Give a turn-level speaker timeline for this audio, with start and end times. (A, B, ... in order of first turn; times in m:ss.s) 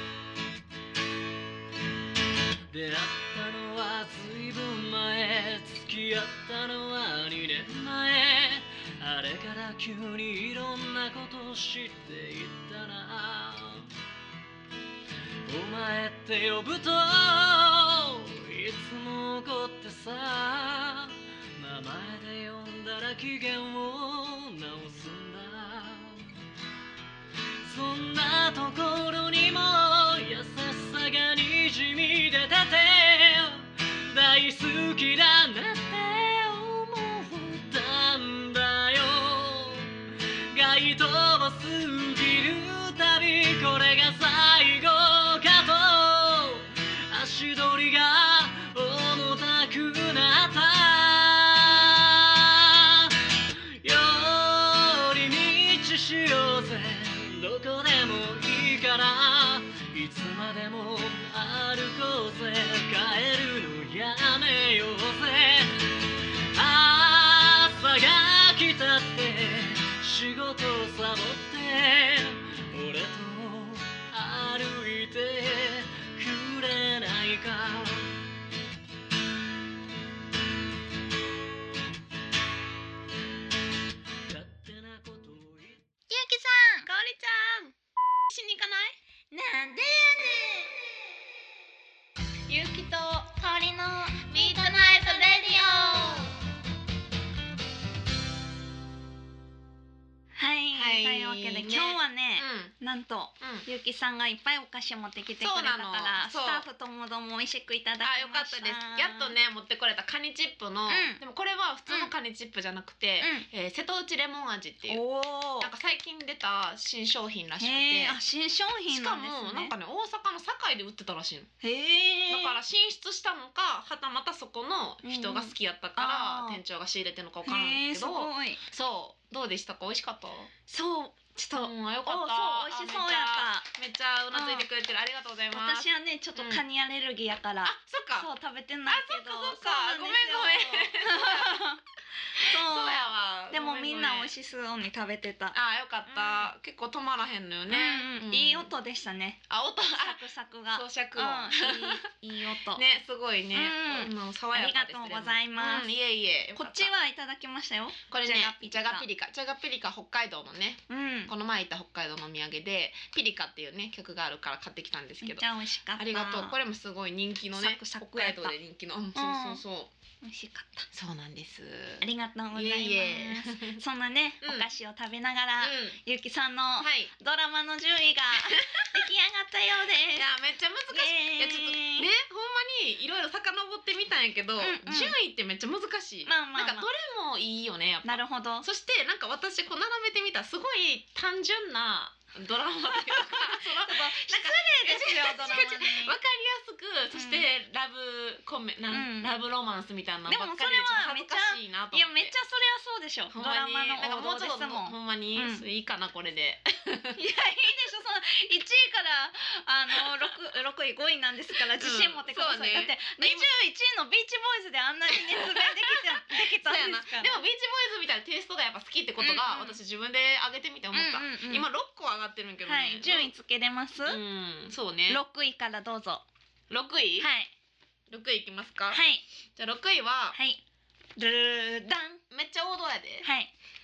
0:02.7-0:13.9 A
0:15.4-0:26.4 A
0:27.6-0:39.9 A
0:40.5-1:18.2 A
1:24.3-1:25.8 A
1:26.1-1:26.9 B
1:26.8-1:27.7 C
1:28.3-1:29.0 C
1:29.3-1:30.8 B
1:32.5-1:33.2 C
1:33.0-1:36.3 B
1:34.3-1:36.3 C
1:40.3-1:49.3 B
1:40.7-1:42.7 C
1:43.4-1:43.6 C
1:45.4-1:46.6 C
1:48.0-1:55.0 C
1:50.9-1:51.2 B
1:53.2-1:53.5 B
1:54.9-1:55.7 B
1:55.6-1:58.2 C
1:57.6-1:59.7 B
1:58.9-2:01.5 C
2:01.6-2:02.6 B
2:02.3-2:10.5 C
2:05.0-2:06.6 B
2:07.4-2:08.6 B
2:10.7-2:13.7 B
2:11.5-2:16.6 C
2:14.3-2:14.7 B
2:15.5-2:21.8 B
2:17.6-2:18.3 C
2:18.9-2:21.6 C
2:22.3-2:25.6 B
2:22.4-2:24.3 C
2:25.5-2:28.7 C
2:26.1-2:26.5 B
2:27.7-2:32.8 B
2:29.5-2:36.9 C
2:33.5-2:35.9 B
2:36.5-2:39.0 B
2:38.1-2:49.9 C
2:40.9-2:41.3 B
2:45.2-2:46.6 B
2:47.6-2:48.5 B
2:49.1-2:49.6 B
2:50.2-2:50.9 B
2:50.9-2:53.8 C
2:52.0-3:00.3 B
2:54.4-2:54.7 C
2:55.6-2:56.0 C
2:56.8-2:57.1 C
2:58.4-2:59.1 C
3:00.1-3:22.3 C
3:00.9-3:02.1 B
3:04.6-3:05.2 B
3:06.2-3:06.9 B
3:08.0-3:08.7 B
3:12.9-3:16.1 B
3:17.1-3:17.5 B
3:18.9-3:19.3 B
3:20.3-3:25.6 B
3:23.3-3:27.2 C
3:27.1-3:37.4 B
3:30.0-3:30.3 C
3:31.5-3:33.5 C
3:35.1-3:43.3 C
3:39.2-3:39.8 B
3:40.9-3:41.7 B
3:42.6-3:44.2 B
3:44.0-3:45.2 C
3:45.1-3:46.2 B
3:46.7-3:47.3 C
3:47.2-3:47.5 B
3:48.1-3:49.0 C
3:48.9-3:49.2 B
3:49.6-3:50.4 C
3:50.3-3:50.6 B
3:51.2-3:52.2 B
3:52.3-3:53.2 C
3:53.2-3:53.5 B